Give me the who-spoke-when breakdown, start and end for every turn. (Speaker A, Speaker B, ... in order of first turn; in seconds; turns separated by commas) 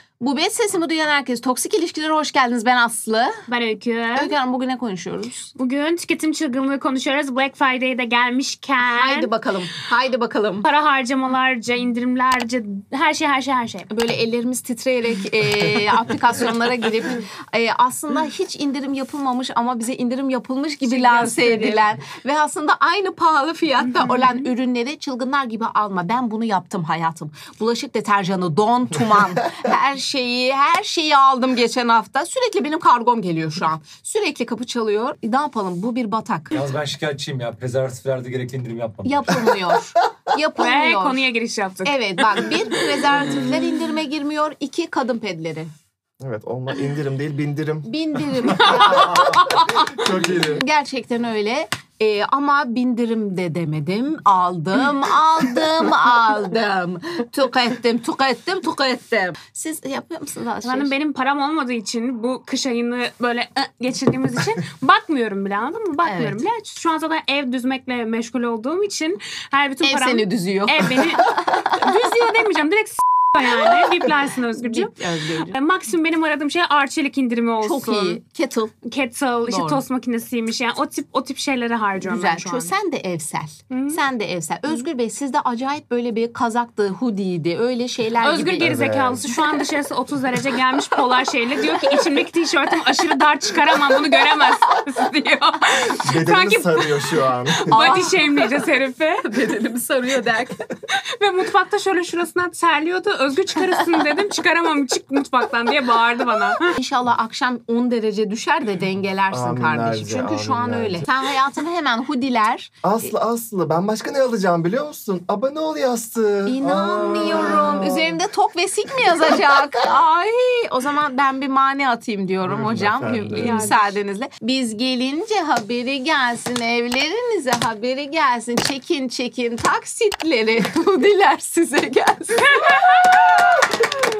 Speaker A: 0.2-3.4, Speaker B: 3.5-4.3, Speaker A: 4.1-5.5, Speaker B: 5.6-9.3, Speaker A: 8.8-10.7, Speaker B: 10.6-13.9, Speaker A: 13.9-36.6, Speaker B: 20.8-21.8, Speaker B: 23.9-24.4, Speaker C: 36.5-39.5, Speaker A: 39.0-41.2, Speaker B: 40.6-42.4, Speaker A: 41.8-45.7, Speaker D: 46.2-50.6, Speaker A: 47.9-60.9, Speaker B: 48.8-49.1, Speaker B: 60.6-74.9, Speaker A: 66.0-66.4, Speaker A: 69.8-72.0, Speaker A: 74.5-75.6, Speaker B: 75.5-78.2, Speaker A: 77.6-78.7, Speaker B: 78.8-82.7, Speaker A: 79.5-79.8, Speaker A: 82.0-88.8, Speaker B: 83.7-84.0, Speaker B: 88.2-99.2, Speaker D: 88.6-89.3, Speaker D: 96.0-97.8, Speaker A: 97.7-98.3, Speaker A: 99.2-100.6, Speaker B: 100.9-106.7, Speaker A: 106.6-112.8, Speaker D: 109.3-111.1, Speaker D: 112.8-118.2, Speaker A: 116.5-133.6, Speaker D: 122.4-123.7, Speaker B: 123.3-123.9, Speaker B: 132.5-132.9